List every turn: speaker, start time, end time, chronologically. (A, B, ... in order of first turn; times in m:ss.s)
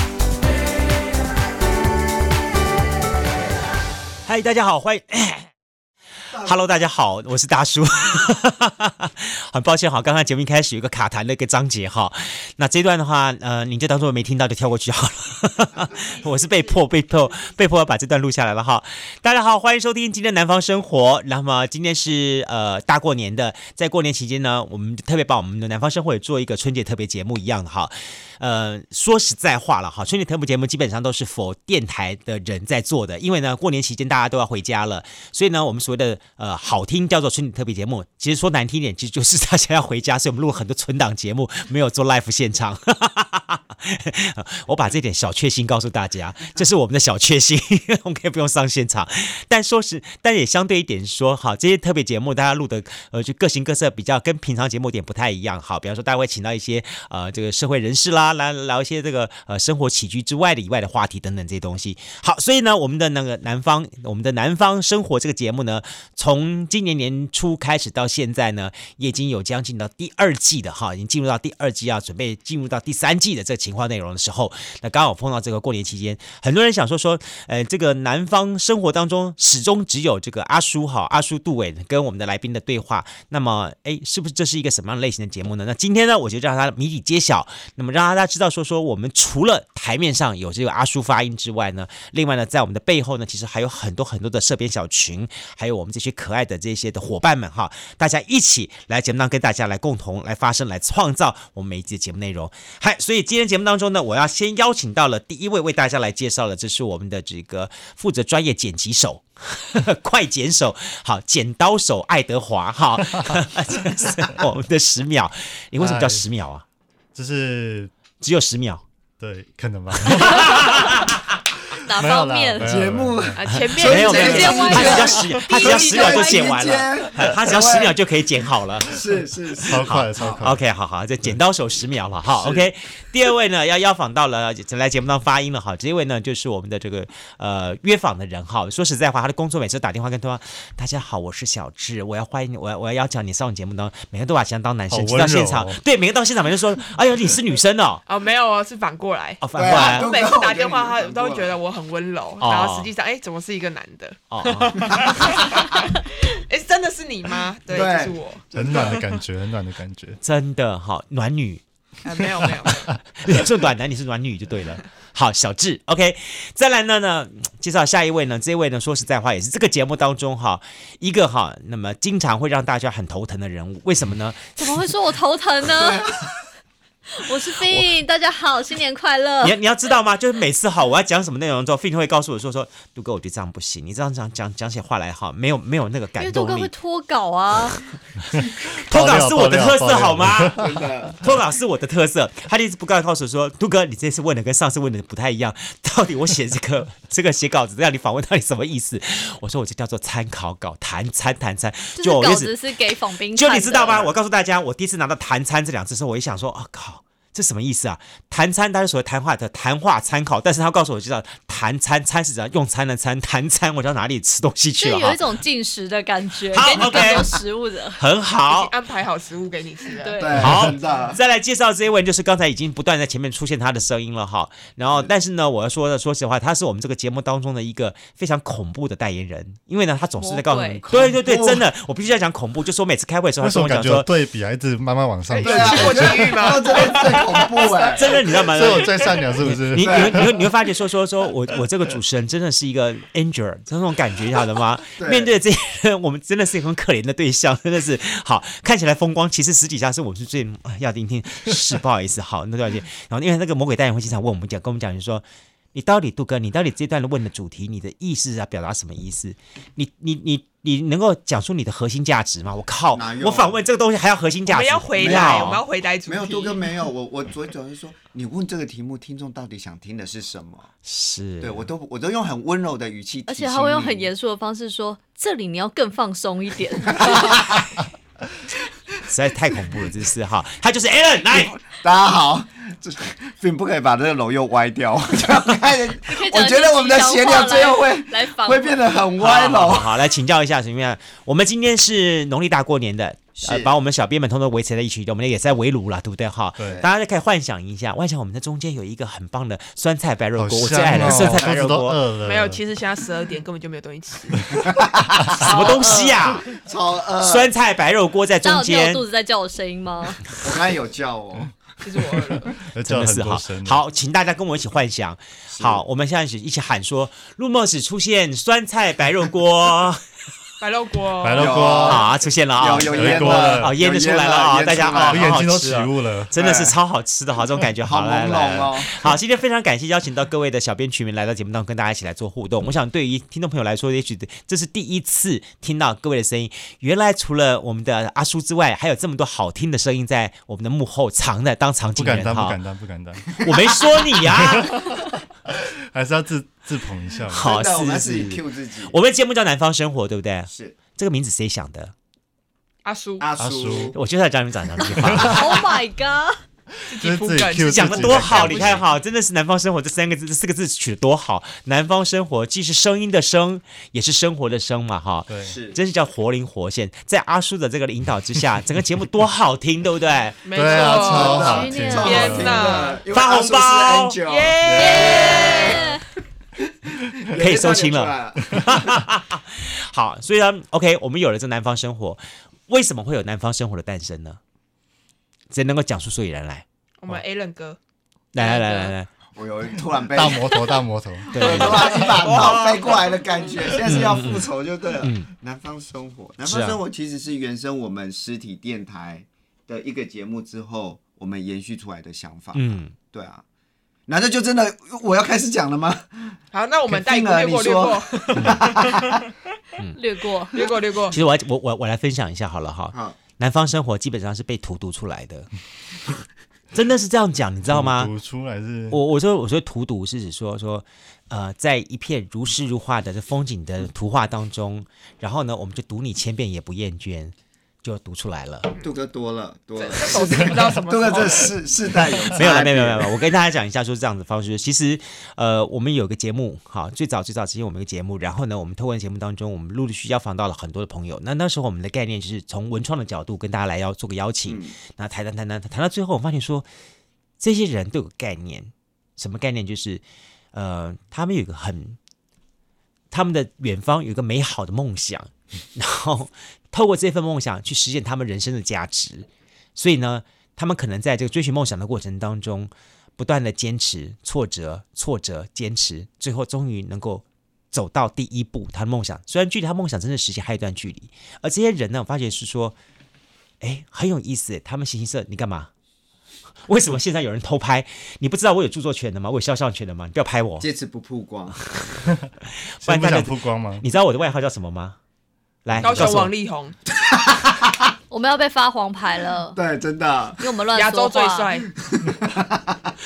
0:04.2-0:05.5 A
0:06.4-1:56.6 A
0:16.0-0:16.7 B
1:55.8-1:56.3 C
1:57.1-1:57.9 C
1:58.2-1:58.8 A
1:59.2-2:01.0 C
2:00.0-2:01.2 A
2:01.8-2:02.7 D
2:01.9-2:03.4 C
2:02.6-2:08.0 E
2:03.4-2:05.8 B
2:03.5-2:09.0 A
2:04.0-2:06.6 D
2:08.9-2:10.4 E
2:09.6-2:10.6 C
2:09.8-2:28.0 A
2:12.4-2:12.7 E
2:24.9-2:25.8 C
2:28.0-2:38.4 B
2:29.4-2:30.1 A
2:29.5-2:31.5 E
2:32.4-2:32.9 A
2:34.3-2:35.4 A
2:34.8-2:35.6 E
2:37.7-2:39.0 E
2:38.5-2:40.2 C
2:40.2-2:41.6 A
2:42.0-2:42.9 B
2:43.2-2:54.9 A
2:54.6-2:56.2 D
2:57.1-2:59.6 D
2:57.6-2:57.9 A
2:59.4-3:06.7 A
3:06.2-3:07.9 D
3:08.4-3:11.2 C
3:08.9-3:10.7 A
3:10.5-3:11.2 E
3:11.2-3:22.5 A
3:22.0-3:24.1 D
3:23.3-3:35.3 A
3:34.8-3:38.0 D
3:36.5-3:37.3 A
3:36.6-3:37.3 B
3:38.0-3:38.7 A
3:38.5-3:40.2 B
3:40.0-3:40.4 D
3:40.2-3:41.2 E
3:40.3-3:54.1 A
3:50.2-3:50.8 D
3:50.9-3:51.6 E
3:53.4-3:56.4 C
3:55.3-3:57.9 B
3:55.4-3:58.2 E
3:57.9-4:25.6 A
3:58.4-4:00.3 C
3:59.8-4:00.3 E
4:05.0-4:05.3 E
4:22.9-4:23.6 E
4:24.4-4:26.6 B
4:25.0-4:30.7 E
4:30.8-4:31.7 A
4:31.4-4:34.1 E
4:33.3-4:37.5 D
4:36.8-4:37.8 E
4:39.0-4:41.6 A
4:41.3-4:50.0 E
4:46.0-4:48.9 D
4:49.2-5:02.0 A
4:53.4-4:53.7 E
4:56.6-4:56.8 C
4:56.6-4:56.9 E
5:00.4-5:02.6 C
5:01.0-5:01.4 E
5:02.2-5:04.5 B
5:04.5-5:07.5 E
5:05.4-5:06.4 D
5:05.4-5:06.4 A
5:07.2-5:09.0 A
5:08.4-5:10.3 D
5:10.4-5:11.6 E
5:11.8-5:12.6 B
5:12.6-5:13.8 C
5:12.8-5:20.0 A
5:15.5-5:15.8 E
5:20.6-5:21.8 B
5:21.2-5:22.0 C
5:21.4-5:25.3 E
5:21.8-5:42.6 A
5:22.8-5:23.7 C
5:25.0-5:26.3 C
5:26.4-5:26.7 E
5:27.8-5:29.1 E
5:42.0-5:43.4 C
5:43.4-5:44.8 A
5:44.3-5:47.6 C
5:47.3-5:51.9 A
5:47.4-5:48.9 E
5:50.5-5:50.8 E
5:52.8-5:53.3 B
5:53.2-5:54.0 E
5:53.4-5:54.0 C
5:53.9-5:55.4 A
5:55.0-5:55.5 C
5:55.3-5:56.4 D
5:56.9-5:58.8 B
5:56.9-5:58.8 C
5:57.7-6:10.4 A
6:05.3-6:05.5 C
6:05.4-6:05.8 E
6:10.4-6:13.0 B
6:10.5-6:12.8 C
6:10.7-6:16.0 E
6:11.2-6:12.9 D
6:13.0-6:14.2 A
6:14.2-6:15.8 B
6:14.7-6:16.0 D
6:16.8-6:19.0 E
6:17.3-6:24.4 A
6:25.5-6:26.6 A
6:27.0-6:27.8 B
6:28.3-6:29.1 A
6:28.3-6:28.9 B
6:29.3-6:30.6 E
6:30.1-6:32.0 C
6:31.3-6:43.4 E
6:31.3-6:32.7 A
6:33.8-6:35.3 A
6:36.4-6:36.8 A
6:42.5-6:42.9 A
6:44.1-6:49.2 E
6:46.5-6:49.2 B
6:48.4-6:48.6 A
6:49.9-6:50.7 D
6:50.5-6:51.2 B
6:51.1-6:55.5 A
6:52.9-6:53.2 E
6:56.7-6:58.1 A
6:57.6-6:59.0 C
6:58.9-7:08.7 A
7:08.8-7:13.1 E
7:09.8-7:11.6 B
7:12.3-7:26.7 A
7:24.4-7:24.7 E
7:27.4-7:32.0 A
7:33.1-7:52.8 A
7:53.6-7:55.7 A
7:56.6-8:00.6 A
8:00.6-8:01.6 E
8:02.8-8:05.0 A
8:02.8-8:03.8 C
8:05.6-8:06.3 A
8:05.8-8:06.8 B
8:07.1-8:07.8 E
8:08.1-8:09.6 D
8:09.5-8:10.4 E
8:10.4-8:11.5 D
8:10.7-8:11.7 B
8:11.7-8:12.8 E